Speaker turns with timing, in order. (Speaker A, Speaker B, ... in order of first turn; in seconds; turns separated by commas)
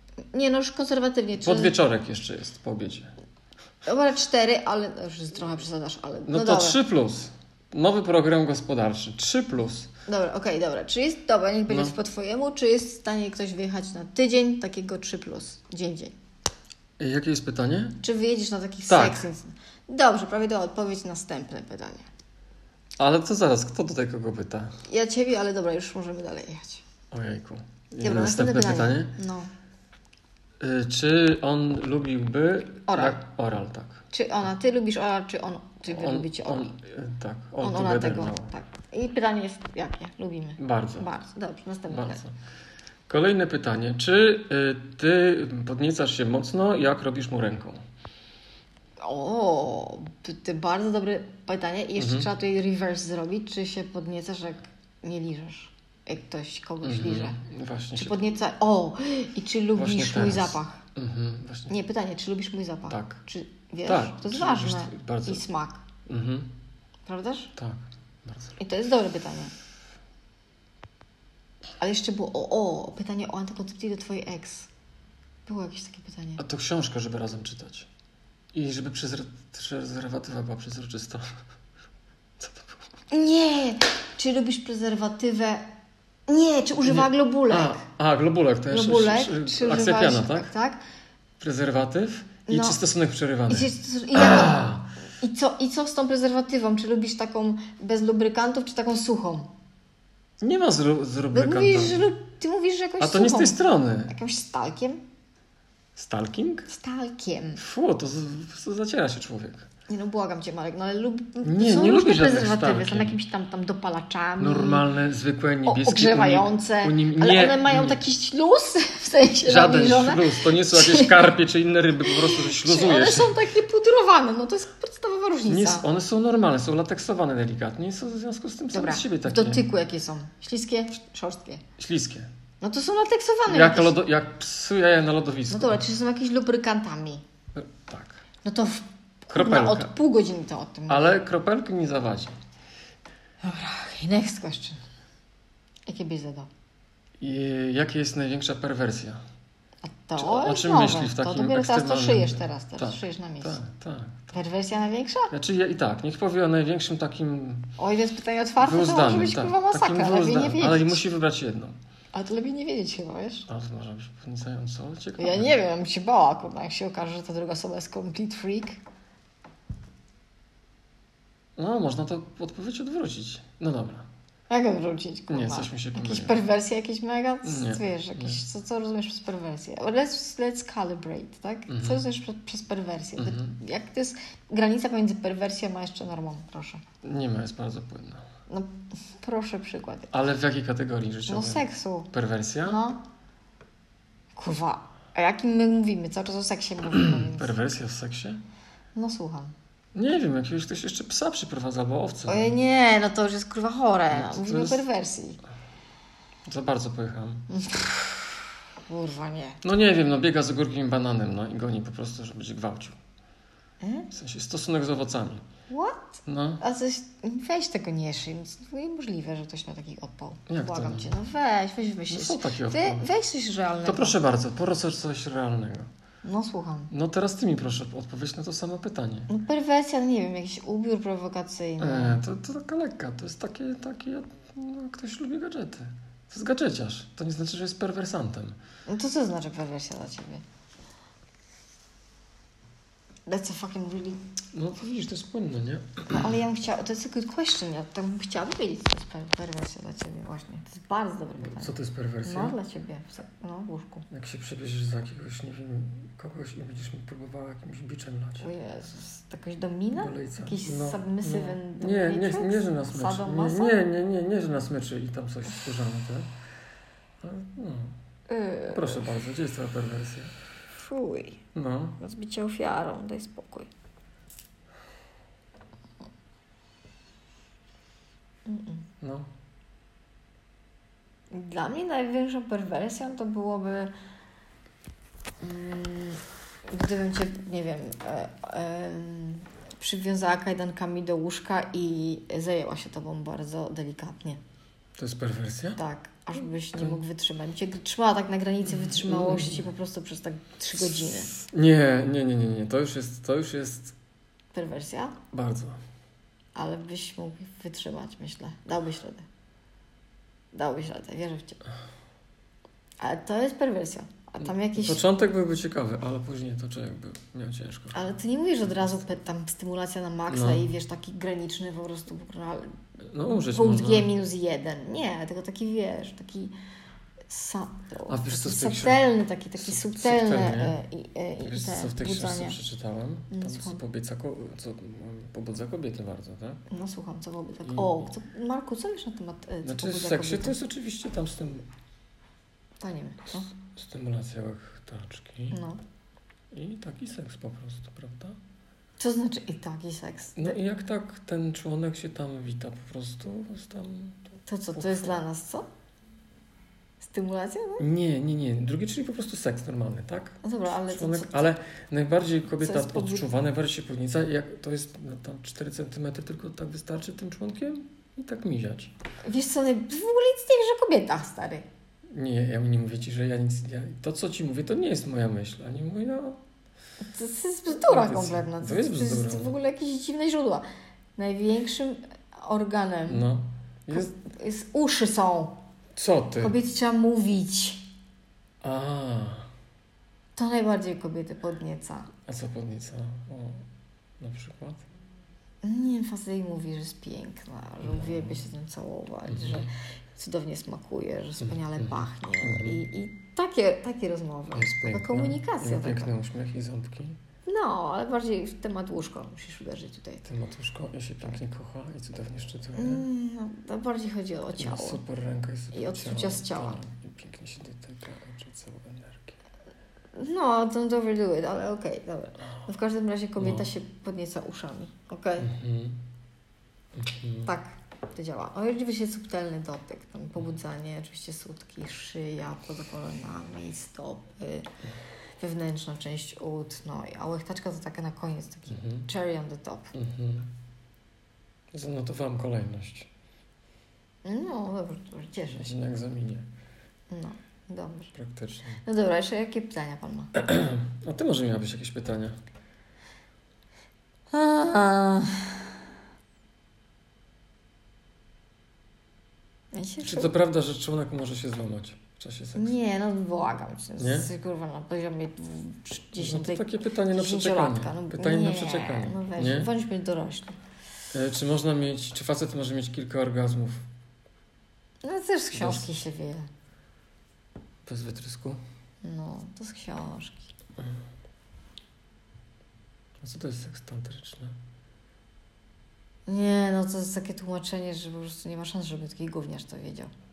Speaker A: 0.3-1.7, Speaker B: 1.4-3.1, Speaker A: 3.8-6.8, Speaker B: 6.3-9.9, Speaker A: 10.1-16.1, Speaker B: 11.7-11.9, Speaker B: 17.0-18.0, Speaker A: 18.0-22.1, Speaker B: 18.9-19.2, Speaker B: 23.0-24.8, Speaker A: 24.9-26.8, Speaker B: 27.1-29.2, Speaker A: 28.0-29.5, Speaker B: 30.6-34.0, Speaker A: 32.9-33.2, Speaker A: 34.1-36.7, Speaker B: 35.9-38.5, Speaker A: 37.6-42.2, Speaker B: 40.6-41.1, Speaker B: 41.9-42.3, Speaker B: 43.1-47.8, Speaker A: 49.0-57.4, Speaker B: 52.0-52.3, Speaker B: 56.8-58.2, Speaker A: 57.9-60.8, Speaker B: 59.8-61.7, Speaker A: 61.7-65.8, Speaker B: 62.9-63.2, Speaker B: 63.8-65.4, Speaker B: 66.1-66.5, Speaker A: 67.0-67.5, Speaker B: 67.6-68.6, Speaker A: 68.6-69.5, Speaker A: 71.8-74.7, Speaker A: 75.5-76.4, Speaker B: 76.4-77.9, Speaker B: 78.5-81.4, Speaker B: 82.4-82.8, Speaker A: 83.1-85.7, Speaker A: 86.3-87.8, Speaker B: 86.8-90.5, Speaker A: 88.7-90.8, Speaker B: 91.4-94.9, Speaker A: 92.5-92.8, Speaker A: 93.5-94.7, Speaker A: 95.2-99.5, Speaker B: 100.4-102.1, Speaker A: 101.3-105.0, Speaker B: 103.0-104.1, Speaker B: 106.0-106.7, Speaker A: 106.7-107.6, Speaker B: 107.6-109.7, Speaker A: 109.9-114.9, Speaker B: 111.4-113.2, Speaker B: 114.4-118.0, Speaker A: 115.6-121.2, Speaker B: 119.5-123.4, Speaker A: 122.0-125.9, Speaker B: 125.5-129.7, Speaker A: 128.7-131.6, Speaker B: 131.8-132.3, Speaker A: 132.6-133.9, Speaker B: 133.5-135.8, Speaker A: 135.5-137.2, Speaker B: 137.5-138.2, Speaker A: 138.4-141.2, Speaker B: 139.3-139.9, Speaker B: 140.9-142.3, Speaker A: 143.4-144.8, Speaker A: 145.8-146.5, Speaker B: 147.2-149.2, Speaker A: 149.8-153.6, Speaker B: 150.2-154.4, Speaker A: 154.3-155.3, Speaker B: 155.3-157.7, Speaker A: 157.8-161.0, Speaker B: 158.6-161.8, Speaker A: 162.1-163.5, Speaker B: 163.5-165.6, Speaker A: 165.2-168.8, Speaker B: 171.6-174.1, Speaker A: 174.5-186.8, Speaker B: 175.3-176.4, Speaker B: 177.4-178.4, Speaker B: 181.7-182.0, Speaker B: 183.2-183.6, Speaker B: 187.0-188.2, Speaker A: 188.5-190.1, Speaker B: 190.1-192.8, Speaker A: 191.3-192.1, Speaker A: 192.6-193.0, Speaker A: 194.3-197.5, Speaker B: 196.9-198.4, Speaker A: 198.9-199.5, Speaker B: 199.9-202.6, Speaker A: 202.3-205.4, Speaker B: 204.1-204.8, Speaker B: 206.4-207.5, Speaker A: 207.5-209.6, Speaker B: 209.6-213.0, Speaker A: 213.8-214.1, Speaker B: 214.1-215.5, Speaker A: 215.7-224.2, Speaker B: 216.2-216.6, Speaker B: 220.5-221.1, Speaker B: 222.1-223.1, Speaker B: 223.8-225.9, Speaker A: 226.2-226.9, Speaker B: 226.9-229.3, Speaker A: 229.3-232.2, Speaker B: 231.8-238.6, Speaker A: 238.9-240.4, Speaker A: 243.2-244.2, Speaker B: 244.5-246.3, Speaker A: 246.1-251.7, Speaker B: 251.4-252.6, Speaker A: 252.2-254.1, Speaker B: 254.1-258.5, Speaker A: 258.4-263.8, Speaker B: 259.9-266.3, Speaker B: 267.2-267.9, Speaker A: 268.3-269.1, Speaker B: 268.7-270.3, Speaker A: 270.7-271.4, Speaker B: 271.5-272.0, Speaker A: 272.0-273.7, Speaker A: 278.4-278.9, Speaker B: 279.0-279.3, Speaker A: 281.3-283.9, Speaker A: 285.4-294.4, Speaker B: 295.0-295.8, Speaker A: 295.8-301.3, Speaker B: 298.7-299.6, Speaker B: 301.3-303.9, Speaker A: 304.5-305.2, Speaker B: 305.3-305.8, Speaker A: 306.5-309.2, Speaker A: 310.5-311.6, Speaker A: 313.0-315.0, Speaker B: 314.4-318.1, Speaker A: 317.9-326.5, Speaker B: 318.6-319.0, Speaker B: 320.3-320.7, Speaker B: 323.0-324.1, Speaker A: 327.3-332.6, Speaker B: 328.1-329.1, Speaker B: 329.6-330.8, Speaker B: 331.4-336.6, Speaker A: 333.3-333.8, Speaker A: 336.7-340.6, Speaker B: 337.6-338.1, Speaker B: 339.6-341.7, Speaker A: 342.8-343.5, Speaker B: 343.6-345.6, Speaker A: 345.5-345.8, Speaker B: 346.5-348.4, Speaker A: 349.0-350.6, Speaker B: 350.4-355.2, Speaker A: 354.4-355.7, Speaker A: 357.0-357.9, Speaker B: 357.8-368.9, Speaker A: 360.4-361.4, Speaker A: 362.6-363.3, Speaker A: 369.2-371.7, Speaker B: 372.1-376.4, Speaker A: 377.0-383.2, Speaker B: 377.8-379.6, Speaker B: 383.1-384.1, Speaker A: 383.9-385.6, Speaker B: 385.9-386.6, Speaker A: 386.4-387.9, Speaker B: 388.6-389.5, Speaker A: 390.4-392.1, Speaker B: 392.2-393.6, Speaker B: 394.2-394.8, Speaker A: 395.6-406.1, Speaker B: 397.8-398.4, Speaker B: 399.3-399.7, Speaker B: 401.4-402.8, Speaker B: 404.5-407.2, Speaker A: 407.4-410.3, Speaker B: 410.2-413.1, Speaker A: 412.7-415.0, Speaker B: 414.6-419.3, Speaker A: 415.7-416.8, Speaker A: 420.1-425.5, Speaker B: 423.4-423.7, Speaker B: 425.4-426.0, Speaker B: 426.9-427.5, Speaker A: 427.4-434.7, Speaker A: 435.4-439.9, Speaker B: 438.7-439.1, Speaker B: 439.9-440.5, Speaker B: 441.7-443.1, Speaker A: 444.2-445.7, Speaker B: 445.5-446.5, Speaker A: 447.1-448.1, Speaker B: 448.1-448.8, Speaker A: 448.8-450.3, Speaker B: 450.3-452.4, Speaker A: 454.3-455.8, Speaker A: 459.7-460.3, Speaker B: 460.0-462.7, Speaker A: 462.5-470.6, Speaker B: 464.0-464.3, Speaker B: 466.1-469.7, Speaker B: 471.1-473.8, Speaker A: 475.0-476.5, Speaker B: 475.5-475.9, Speaker B: 477.9-478.6, Speaker A: 479.0-480.5, Speaker B: 483.2-484.6, Speaker A: 486.3-490.1